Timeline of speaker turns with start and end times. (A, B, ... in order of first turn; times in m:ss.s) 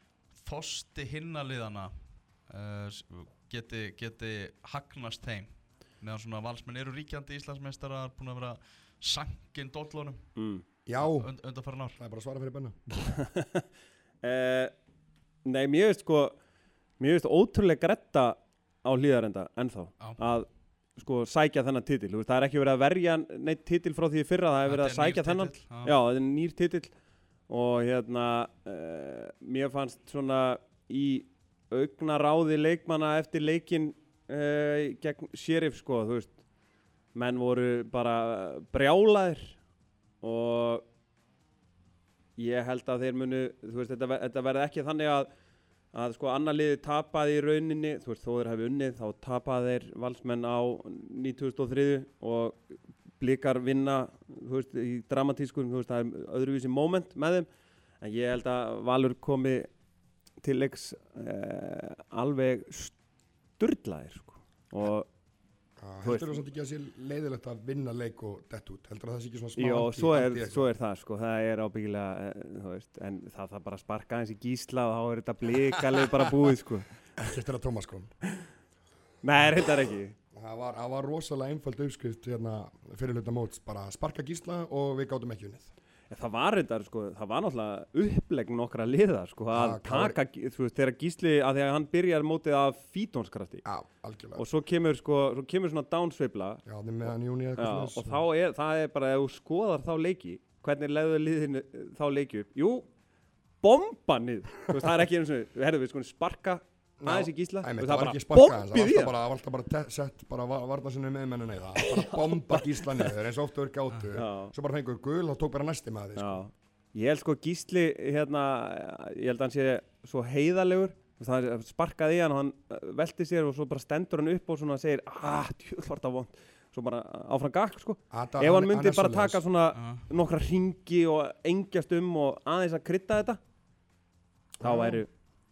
0:00.3-0:10.3 A
0:10.4-0:10.6 B
0:10.9-0:11.3 C
0:11.0-0:12.0 A
0:11.9-0:12.9 C
0:13.2-0:13.6 B
0:14.2-0:14.7 B
0:15.4-0:16.4 B
0:17.0-0:26.9 B
0:24.6-0:25.9 A
0:27.5-0:36.4 B
0:37.1-0:39.6 B
0:40.2-0:40.8 B
0:42.4-0:45.3 B
0:45.9-0:52.6 B
0:53.2-0:57.5 B
0:58.0-0:59.7 B
1:00.4-1:03.0 B
1:03.6-1:05.1 B
1:05.8-1:10.7 C
1:06.0-1:06.4 B
1:09.6-1:16.9 B
1:17.2-1:18.1 C
1:19.2-1:20.2 B
1:20.3-1:25.7 C
1:26.1-1:33.6 B
1:29.5-1:30.2 C
1:33.6-1:34.4 C
1:34.4-1:36.6 B
1:36.6-1:38.2 C
1:37.6-1:42.9 B
1:43.6-1:49.1 B
1:47.0-1:56.4 C
1:51.8-1:53.0 B
1:54.1-1:54.5 B
1:56.2-2:13.4 B
2:08.1-2:09.4 C
2:09.7-2:10.0 A
2:14.6-2:15.0 C
2:14.6-2:15.1 B